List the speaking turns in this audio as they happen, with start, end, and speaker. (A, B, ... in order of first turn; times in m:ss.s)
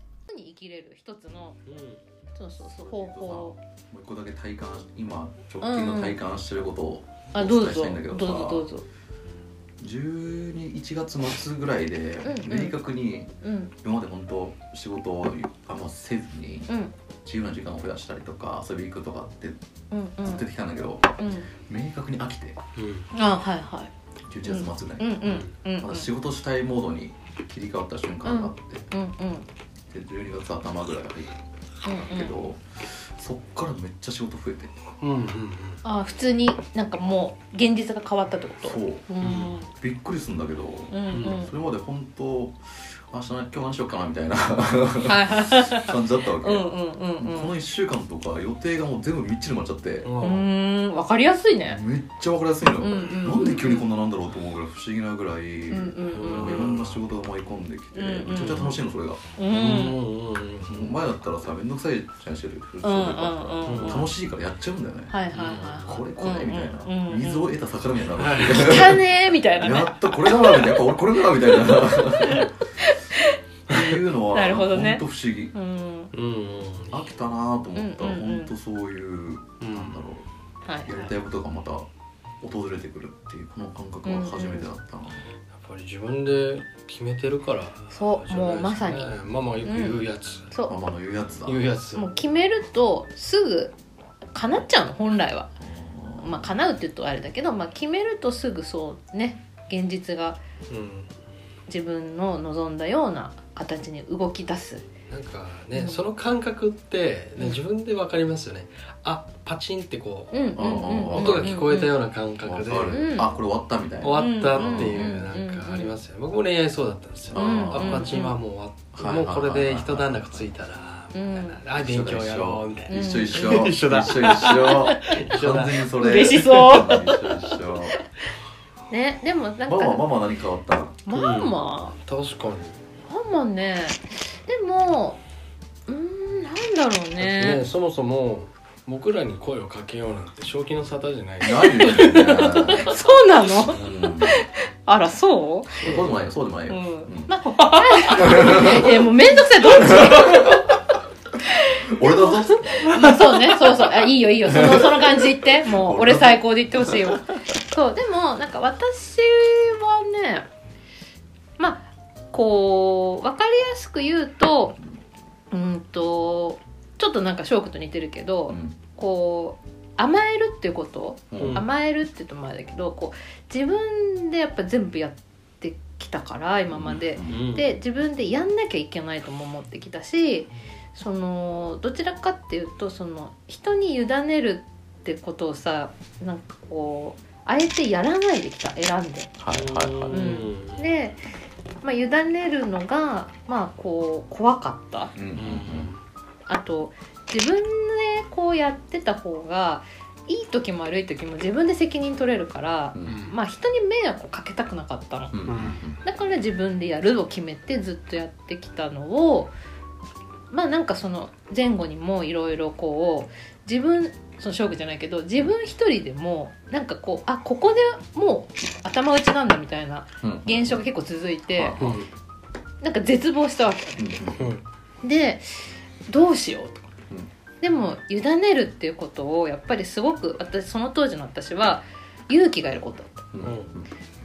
0:00.3-0:01.6 A
0:01.6-0:02.0 B
0:02.4-0:03.6 A
0:02.9-0:08.7 C
0:05.6-0:06.2 A
0:07.3-0:08.8 A
0:09.8-0:16.7 C
0:12.2-0:12.8 A
0:13.4-0:13.7 A
0:16.7-0:16.9 A
0:17.2-0:19.6 C
0:19.9-0:20.4 A
0:20.2-0:22.6 C
0:21.2-0:21.5 A
0:22.8-0:23.1 B
0:23.1-0:23.9 A
0:24.3-0:28.9 C
0:24.4-0:26.1 A
0:28.2-0:29.4 A
0:29.9-0:31.4 C
0:31.8-0:32.3 A
0:32.0-0:34.8 C
0:35.0-0:35.8 B
0:35.8-0:39.7 A
0:38.6-0:39.1 C
0:39.2-0:39.6 B
0:39.7-0:50.1 C
0:40.9-0:41.5 A
0:41.1-0:41.4 B
0:45.0-0:47.5 A
0:50.0-0:50.5 B
0:50.2-0:51.8 A
0:51.7-0:59.2 C
0:52.8-0:53.9 A
0:55.7-0:56.7 A
0:56.1-0:57.0 B
0:57.9-0:58.8 A
0:58.4-0:58.7 B
0:59.4-1:00.0 A
0:59.5-1:01.0 B
1:00.6-1:05.1 C
1:02.8-1:04.1 A
1:03.6-1:04.1 B
1:05.1-1:07.5 A
1:05.3-1:06.0 B
1:05.8-1:12.6 C
1:08.2-1:08.9 B
1:08.6-1:10.9 A
1:12.2-1:13.4 A
1:13.7-1:15.5 C
1:13.7-1:14.0 B
1:14.3-1:16.1 A
1:16.1-1:17.0 B
1:16.9-1:20.3 C
1:17.8-1:18.5 A
1:19.6-1:20.0 B
1:20.8-1:21.9 C
1:22.4-1:25.2 C
1:24.0-1:24.7 A
1:25.5-1:30.5 B
1:27.9-1:30.7 A
1:30.7-1:31.6 C
1:31.4-1:32.1 B
1:31.9-1:33.7 A
1:34.3-1:35.5 A
1:35.6-1:36.5 C
1:36.2-1:40.4 A
1:40.7-1:41.1 B
1:41.7-1:44.8 A
1:45.1-1:50.3 B
1:45.7-1:46.0 A
1:50.3-1:51.9 A
1:50.5-1:51.5 C
1:51.1-1:53.0 B
1:52.4-1:55.2 C
1:52.9-1:53.3 A
1:54.0-2:07.6 B
1:54.1-1:55.9 A
1:57.3-1:58.1 C
1:57.3-1:58.4 A
1:58.9-2:00.5 C
2:01.1-2:01.6 A
2:01.8-2:08.0 C
2:02.9-2:03.5 A
2:04.5-2:05.2 A
2:05.9-2:07.0 A
2:08.9-2:10.0 A
2:09.6-2:11.0 C
2:11.0-2:12.0 A
2:11.1-2:12.8 B
2:13.0-2:15.2 A
2:15.9-2:17.6 A
2:17.2-2:22.8 B
2:21.4-2:23.0 C
2:21.7-2:25.9 A
2:23.7-2:24.4 C
2:25.8-2:27.3 C
2:25.8-2:26.3 B
2:26.7-2:30.8 A
2:28.1-2:29.1 C
2:29.6-2:30.8 C
2:31.4-2:40.5 A
2:31.9-2:37.2 C
2:41.6-2:44.8 A
2:45.5-3:09.3 A
2:48.5-2:48.8 C
2:51.3-2:51.6 C
2:51.4-2:51.7 B
2:56.7-2:57.4 C
2:57.2-2:57.7 B
3:09.4-3:10.3 C
3:09.5-3:10.9 B
3:10.1-3:11.2 A
3:11.8-3:15.1 A
3:15.1-3:15.9 C
3:15.3-3:16.0 B
3:16.5-3:25.3 A
3:22.9-3:23.2 C
3:23.1-3:23.3 B
3:25.3-3:26.0 C
3:25.5-3:25.8 B
3:26.0-3:29.5 A
3:30.5-3:41.8 A
3:40.2-3:40.8 C
3:41.6-3:42.1 C
3:41.8-3:42.1 B
3:42.8-3:44.2 A
3:44.0-3:44.5 C
3:44.4-3:44.6 B
3:45.0-3:46.9 A
3:47.6-3:53.3 A
3:53.3-3:53.9 C
3:53.4-3:53.7 B